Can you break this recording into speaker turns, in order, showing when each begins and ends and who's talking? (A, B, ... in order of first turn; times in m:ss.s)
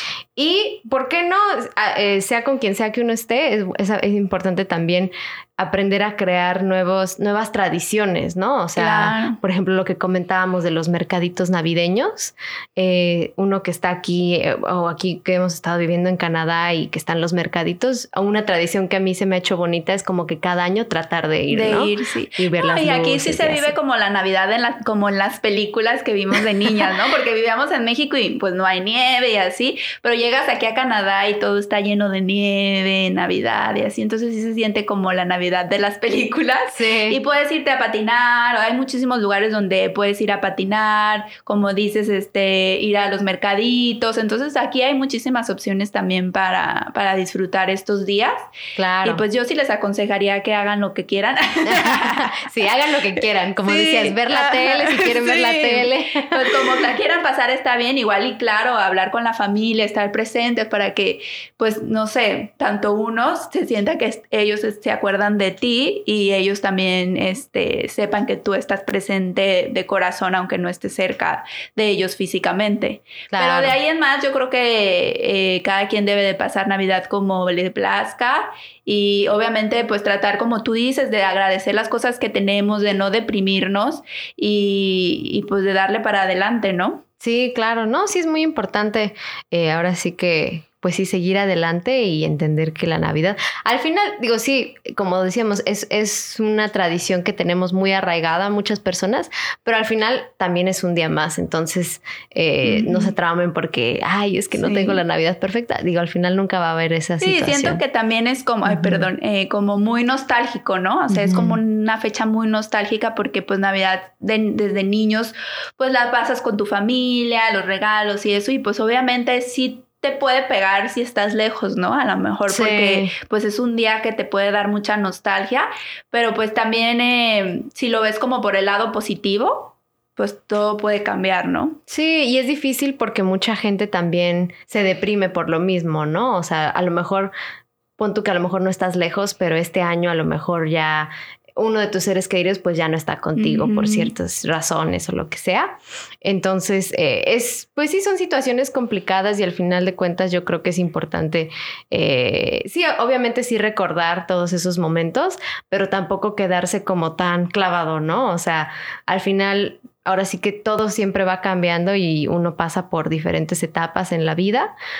0:00.4-0:23.7 A
0:08.8-0:09.4 B
0:21.5-0:48.5 B
0:36.7-0:37.2 A
0:48.8-0:49.2 A
0:49.0-0:52.4 B
0:51.6-0:56.6 A
0:53.6-1:27.0 B
1:13.3-1:13.7 A
1:27.2-1:47.8 A
1:42.6-1:43.1 B
1:44.6-1:45.0 B
1:47.2-2:11.8 B
1:48.6-1:49.1 A
1:51.1-1:51.6 A
2:02.5-2:03.1 A
2:11.9-2:17.3 A
2:18.0-2:44.7 A
2:23.4-2:24.1 B